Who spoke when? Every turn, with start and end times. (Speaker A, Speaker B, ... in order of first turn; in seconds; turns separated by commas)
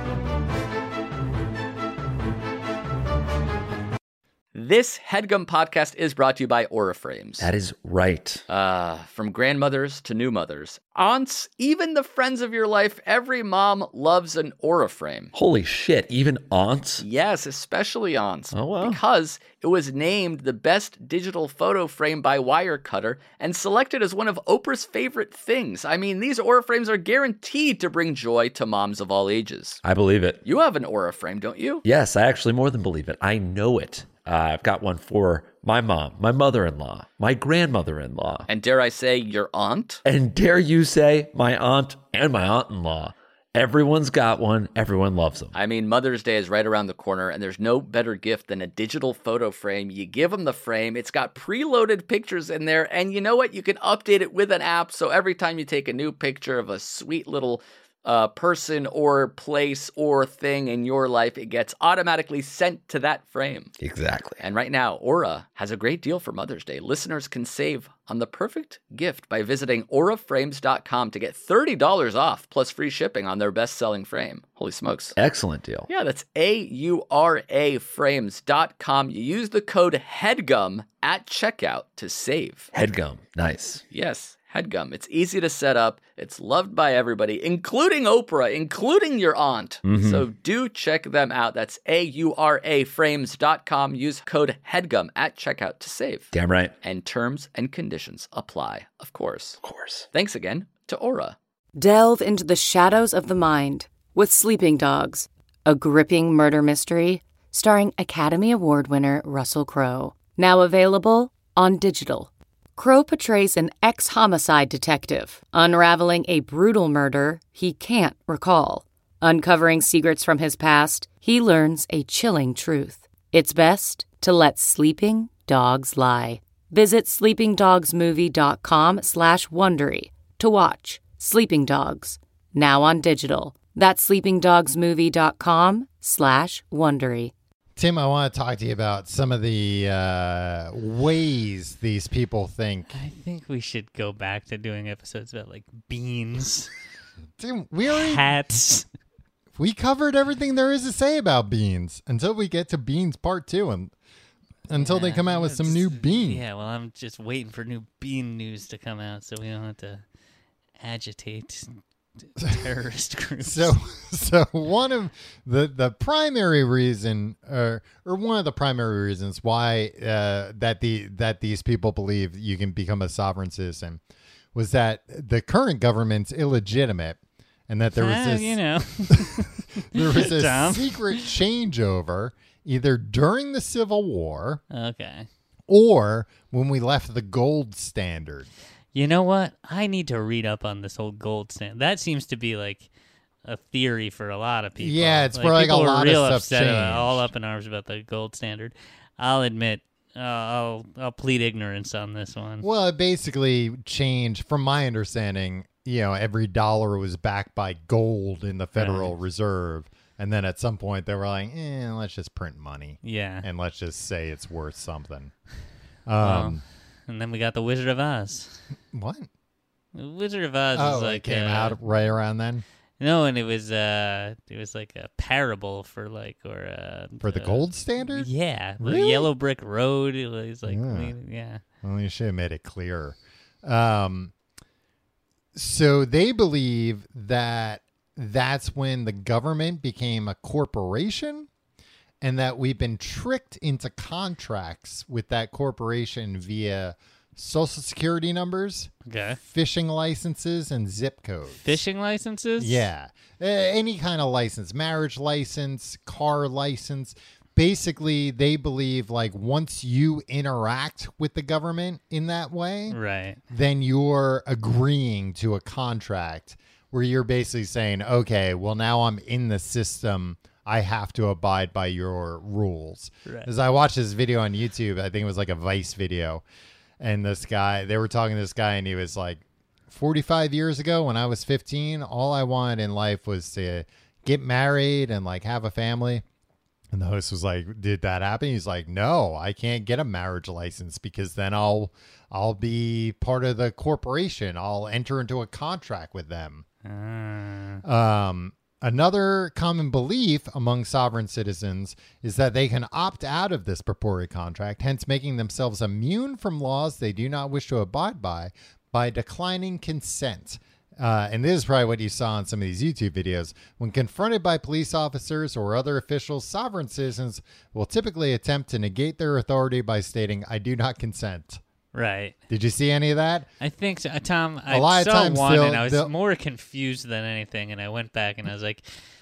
Speaker A: 4.5-7.5, Speaker B: 7.4-8.4, Speaker A: 8.5-15.3, Speaker B: 15.3-17.1, Speaker A: 17.0-29.8, Speaker B: 18.5-19.0, Speaker B: 29.8-30.4, Speaker A: 30.4-31.8, Speaker B: 31.9-38.5, Speaker A: 38.5-40.0, Speaker B: 40.0-45.6, Speaker A: 45.5-63.7, Speaker B: 63.8-64.4, Speaker A: 64.4-75.2, Speaker B: 75.2-75.9, Speaker A: 75.9-82.7, Speaker B: 82.7-83.8, Speaker A: 83.9-99.6, Speaker B: 89.8-90.2, Speaker B: 96.3-96.8, Speaker B: 99.6-100.1, Speaker A: 100.1-101.4, Speaker C: 101.8-137.3, Speaker D: 137.8-143.0, Speaker E: 142.9-146.7, Speaker D: 147.4-148.3, Speaker E: 147.9-148.9, Speaker D: 149.6-153.9, Speaker D: 154.7-156.4, Speaker E: 154.8-160.0, Speaker E: 160.8-161.8, Speaker E: 162.3-163.8, Speaker D: 163.4-174.0, Speaker D: 174.5-184.6, Speaker E: 177.9-181.3, Speaker E: 184.7-185.3, Speaker D: 185.7-188.5, Speaker E: 188.9-192.9, Speaker E: 193.4-202.7, Speaker D: 194.8-197.3, Speaker D: 202.6-215.3, Speaker E: 208.8-209.1, Speaker E: 213.0-213.5, Speaker D: 216.1-216.6, Speaker E: 216.2-218.6, Speaker D: 218.9-219.3, Speaker E: 219.9-221.8, Speaker D: 220.7-222.6, Speaker E: 223.0-231.6, Speaker D: 227.2-229.3, Speaker D: 230.7-231.2, Speaker D: 231.8-234.3, Speaker D: 235.6-241.5, Speaker D: 242.2-251.8, Speaker E: 249.1-249.4, Speaker E: 251.5-252.9, Speaker D: 252.6-276.4, Speaker E: 262.9-263.4, Speaker D: 277.0-286.2, Speaker D: 286.9-296.6, Speaker E: 296.9-297.8, Speaker D: 297.8-321.6, Speaker E: 321.9-322.4, Speaker D: 322.5-323.5, Speaker E: 323.6-328.9, Speaker D: 324.7-326.1